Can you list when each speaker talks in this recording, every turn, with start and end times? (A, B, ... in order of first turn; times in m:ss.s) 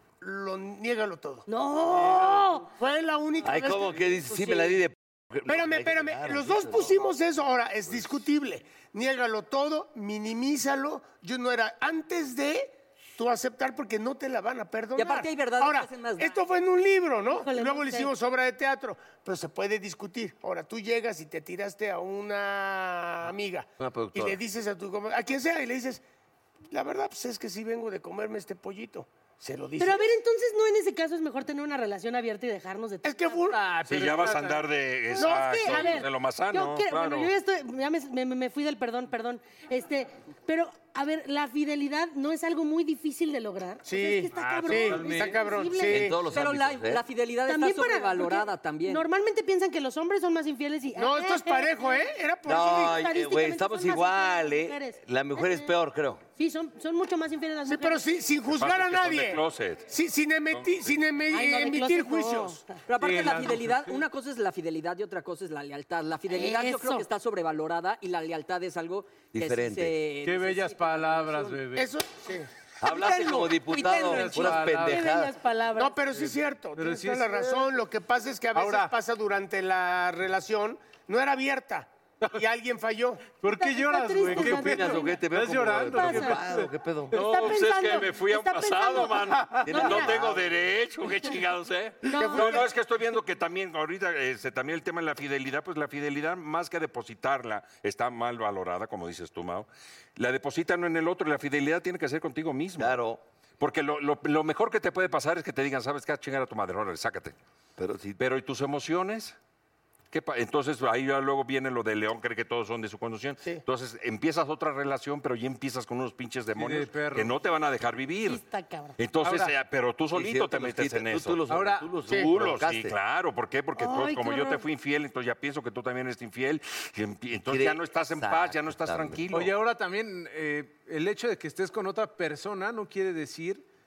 0:00.2-0:04.1 A
0:01.5-0:02.7 B
0:03.4-0:07.0 C
0:04.3-0:04.8 D
0:05.5-0:26.0 A
0:15.0-0:16.4 D
0:17.3-0:18.1 B
0:23.8-0:24.4 C
0:26.7-0:30.1 A
0:29.8-0:33.5 B
0:33.0-0:33.7 A
0:33.5-0:34.7 E
0:33.8-0:37.3 F
0:35.1-0:46.1 B
0:35.2-0:36.0 A
0:43.8-0:46.3 A
0:44.4-0:45.3 E
0:45.8-0:47.0 C
0:46.3-0:49.1 D
0:47.5-0:52.1 B
0:51.0-0:53.0 A
0:52.4-0:56.2 C
0:52.7-0:55.7 B
0:56.4-0:58.0 B
0:57.7-1:02.6 A
0:58.5-0:59.9 F
1:00.5-1:00.9 F
1:01.3-1:02.8 B
1:02.9-1:11.6 D
1:03.0-1:04.0 E
1:06.3-1:07.0 B
1:09.3-1:10.0 C
1:10.2-1:12.0 E
1:11.8-1:12.5 A
1:12.8-1:15.4 C
1:13.7-1:16.0 B
1:13.8-1:15.0 E
1:15.8-1:23.4 A
1:16.2-1:17.7 E
1:18.6-1:18.9 E
1:23.3-1:26.7 E
1:23.5-1:25.2 B
1:24.3-1:27.2 C
1:25.9-1:26.4 B
1:27.1-1:30.2 B
1:27.1-1:43.0 F
1:29.2-1:29.9 E
1:29.6-1:30.6 C
1:32.1-1:32.7 B
1:32.2-1:32.7 A
1:42.8-1:43.2 C
1:43.6-1:47.4 F
1:47.8-1:48.2 C
1:48.2-1:49.4 F
1:50.1-1:58.4 F
1:56.6-1:57.4 E
1:58.2-1:59.0 B
1:59.0-2:01.4 F
1:59.2-1:59.6 E
2:00.1-2:03.0 C
2:01.5-2:01.9 E
2:02.1-2:09.6 F
2:03.8-2:04.6 B
2:07.4-2:09.2 C
2:09.3-2:13.6 E